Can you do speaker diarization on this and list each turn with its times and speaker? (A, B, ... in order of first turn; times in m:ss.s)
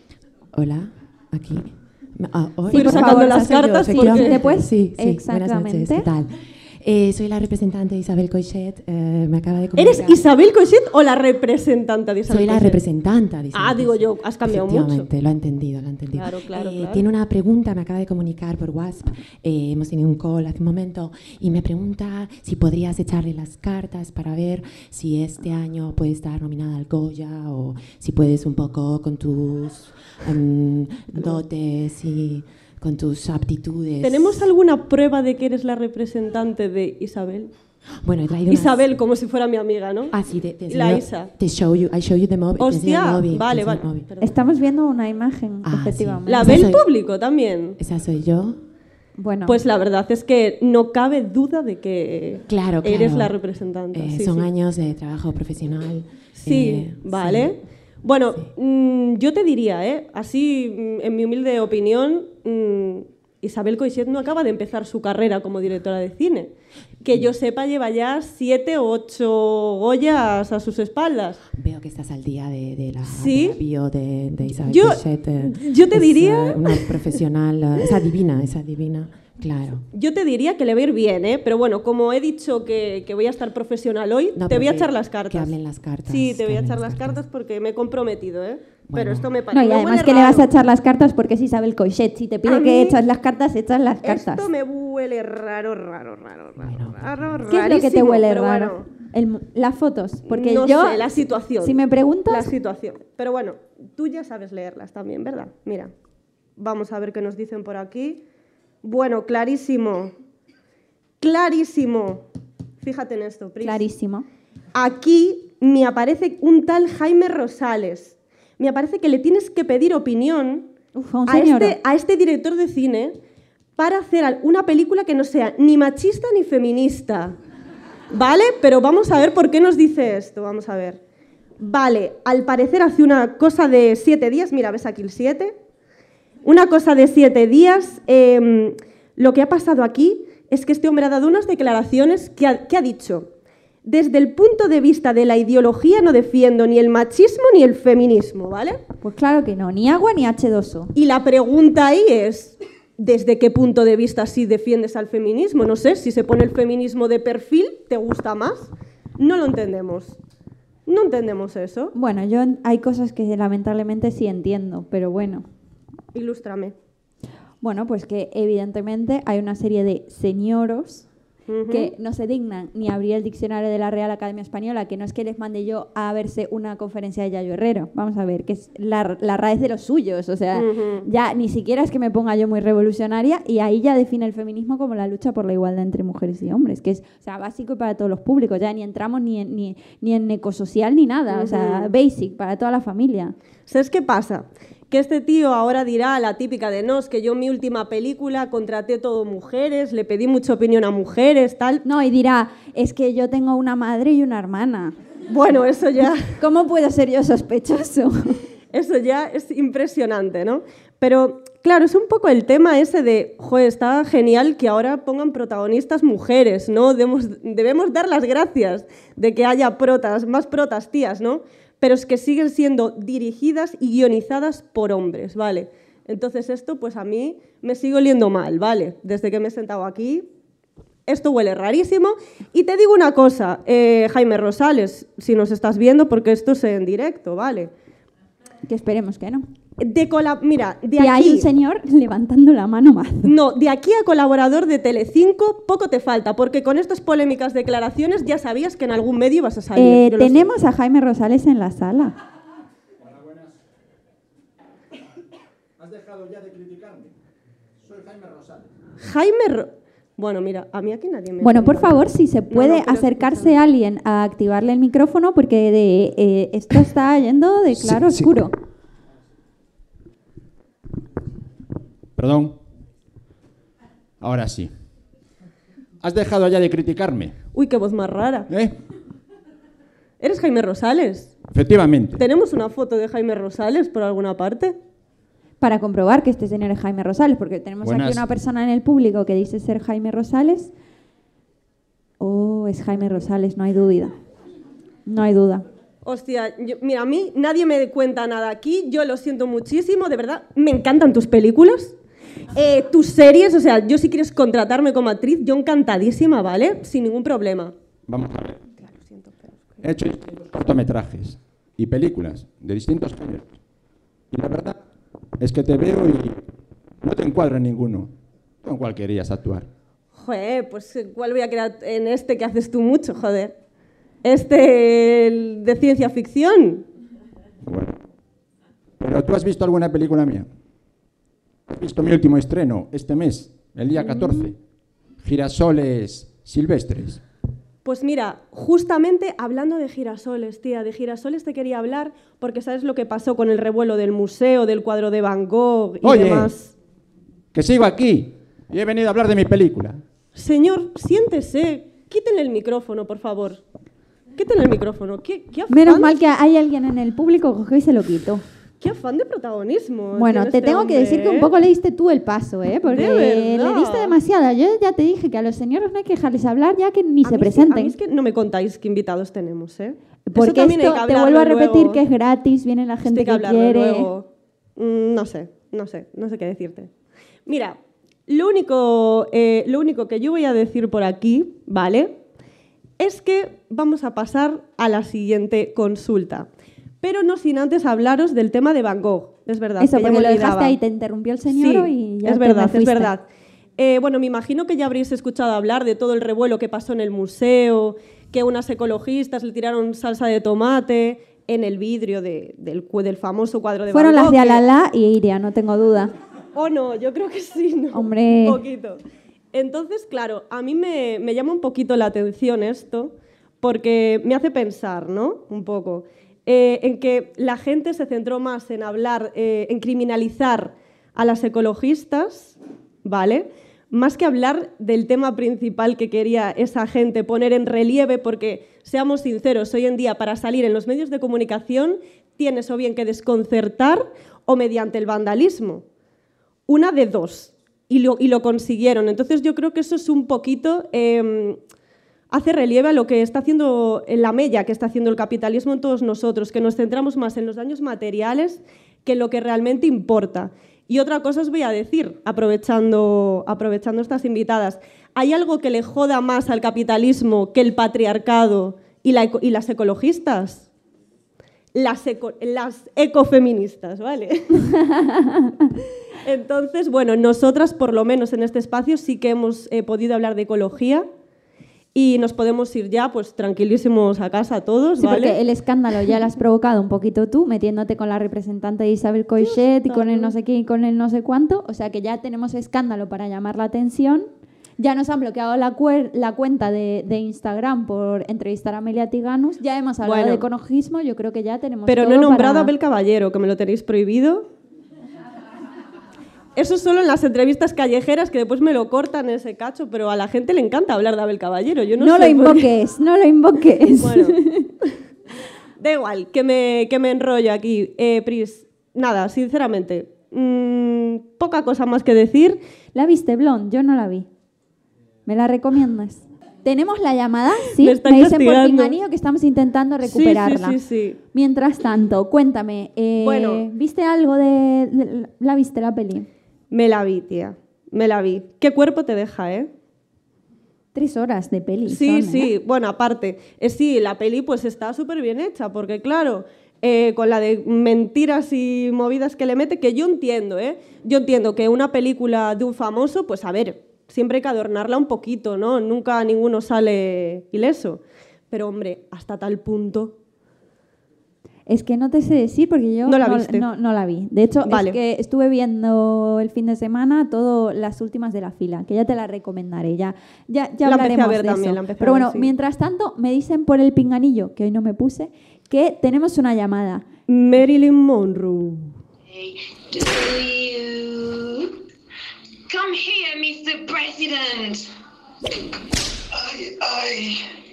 0:00.6-0:10.2 A
0:02.7-0:04.5 B
0:02.7-0:06.1 C
0:09.8-0:12.8 B
0:12.3-0:34.5 A
0:13.5-0:15.1 B
0:16.1-0:17.1 B
0:34.0-0:37.5 B
0:38.0-0:38.9 A
0:38.5-0:40.1 B
0:40.1-0:44.1 A
0:40.7-0:41.3 B
0:42.6-0:44.4 B
0:44.2-0:46.6 C
0:45.6-0:46.9 A
0:46.3-0:47.8 B
0:47.8-0:48.6 A
0:49.2-0:49.6 C
0:49.4-0:54.5 B
0:52.4-0:57.7 A
0:56.4-1:11.4 B
1:11.6-1:19.8 A
1:13.1-1:13.6 B
1:14.6-1:17.0 B
1:19.9-1:30.5 B
1:24.3-1:27.2 A
1:28.8-1:29.4 A
1:29.5-1:34.5 C
1:32.4-1:33.0 B
1:34.0-1:38.9 B
1:36.6-1:37.2 A
1:37.5-1:42.5 C
1:40.3-1:45.9 B
1:46.6-1:48.2 B
1:48.8-1:50.1 B
1:51.2-1:52.2 B
1:52.8-1:53.8 B
1:53.6-1:54.3 C
1:54.7-2:00.7 B
2:01.0-2:01.8 C
2:01.3-2:03.2 B
2:03.8-2:07.4 B
2:08.1-2:11.0 B
2:11.6-2:15.6 B
2:16.4-2:23.3 B
2:23.8-2:28.8 B
2:29.0-2:30.9 C
2:31.0-2:40.2 B
2:40.9-2:41.9 B
2:41.9-2:45.4 C
2:46.1-2:46.7 B
2:47.6-2:51.1 C
2:51.5-2:51.9 B
2:51.7-3:13.3 C
3:00.6-3:01.1 B
3:11.3-3:11.9 B
3:13.7-3:21.8 B
3:21.8-3:25.0 C
3:25.3-3:26.4 B
3:26.4-3:28.4 C
3:28.7-3:50.3 B
3:51.1-3:57.7 B
3:58.7-3:59.4 C
3:59.8-4:01.5 B
4:01.0-4:03.3 C
4:03.2-4:10.5 B
4:09.7-4:12.1 C
4:13.0-4:13.4 D
4:15.8-4:17.1 D
4:17.8-4:18.7 D
4:19.0-4:23.5 B
4:21.4-4:28.5 C
4:32.2-4:32.6 D
4:34.2-4:34.8 D
4:36.0-4:37.4 D
4:37.5-4:38.5 B
4:40.2-4:41.4 B
4:41.4-4:42.2 D
4:42.2-4:44.8 B
4:45.6-4:50.7 C
4:47.8-4:48.3 D
4:52.2-4:54.1 C
4:55.0-4:55.7 C
4:56.0-5:02.0 B
5:02.5-5:07.7 B
5:08.1-5:08.6 D
5:08.8-5:09.6 B
5:09.8-5:13.5 D
5:14.3-5:14.8 D
5:15.4-5:16.4 D
5:17.0-5:18.1 D
5:18.6-5:19.7 D
5:20.1-5:23.6 B
5:24.2-5:26.8 B
5:27.6-5:28.0 D
5:29.0-5:30.5 D
5:31.7-5:34.6 D
5:34.0-5:34.4 B
5:35.2-5:37.2 D
5:37.8-5:46.7 B
5:46.0-5:46.5 D
5:47.5-5:50.0 D
5:50.3-5:53.6 B
5:54.4-5:56.1 B
5:55.7-5:58.4 C
5:58.8-6:01.5 B
6:00.2-6:08.0 C
6:02.9-6:04.1 B
6:07.2-6:12.0 B
6:10.3-6:14.1 C
6:13.0-6:16.9 B
6:17.4-6:22.2 B
6:23.0-6:26.5 B
6:27.0-6:30.8 B
6:29.8-6:33.1 C
6:31.5-6:33.3 B
6:33.8-6:44.6 B
6:43.9-6:46.1 C
6:46.5-6:49.0 B
6:47.9-6:48.6 C
6:49.5-7:15.8 B
7:16.7-7:21.6 B
7:22.3-7:40.7 B
7:41.7-7:44.8 B
7:44.9-7:45.5 C
7:46.2-7:51.1 B
7:52.0-7:55.4 B
7:55.0-8:12.7 C
7:59.4-8:00.3 B
8:10.0-8:10.4 B
8:11.9-8:14.5 B
8:16.6-8:22.7 B
8:22.0-8:24.7 C
8:24.0-8:24.9 B
8:25.8-8:32.6 B
8:32.9-8:34.3 C
8:35.3-8:40.8 C
8:37.7-8:39.0 B
8:40.0-8:41.2 B
8:41.3-8:46.3 C
8:43.2-8:43.6 B
8:46.7-8:49.7 B
8:50.9-8:52.5 C
8:51.9-9:10.1 B
9:11.7-9:27.0 C
9:13.0-9:13.7 B
9:14.6-9:15.0 B
9:20.8-9:22.5 B
9:27.3-9:29.0 B
9:29.3-9:31.7 E
9:32.7-9:34.9 E
9:36.3-9:37.5 E